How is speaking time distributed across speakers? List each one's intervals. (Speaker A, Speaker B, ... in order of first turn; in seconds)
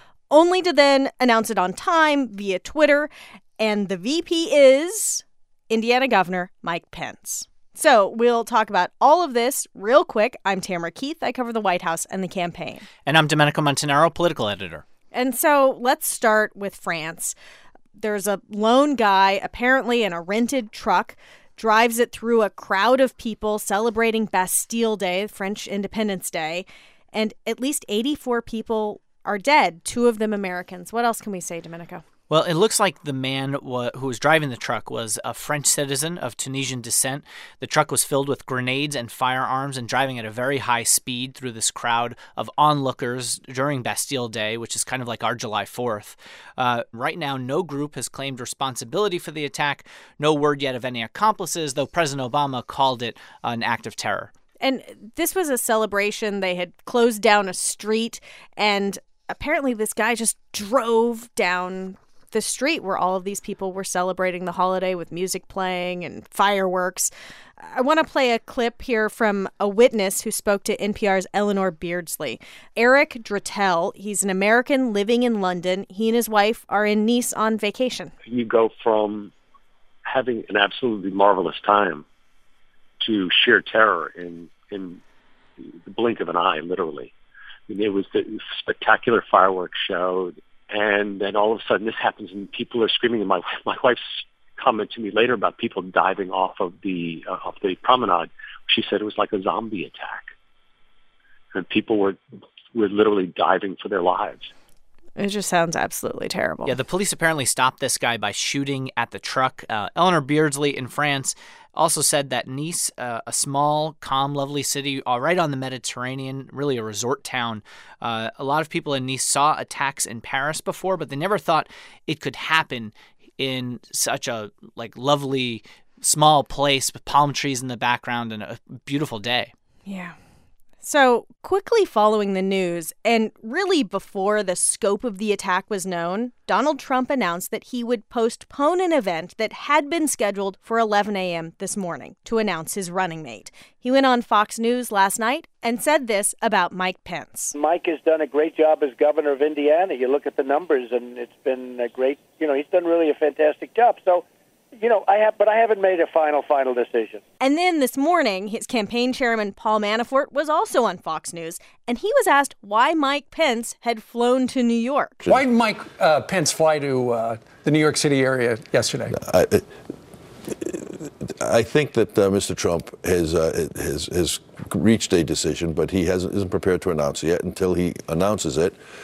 Speaker A: 0.3-12.9, 15.1-17.4, 18.0-32.0, 54.6-78.1, 105.2-106.7, 129.8-130.1, 130.8-147.5, 157.4-165.2
Speaker B: 13.1-14.8, 32.3-54.3, 106.7-129.5
Speaker C: 78.3-79.3, 80.0-82.0, 83.0-85.0, 85.6-87.1, 87.7-100.3, 101.5-102.2, 102.7-104.5
Speaker D: 147.5-154.2, 154.8-157.2
Speaker E: 165.2-169.2
Speaker F: 169.1-169.7, 170.5-178.8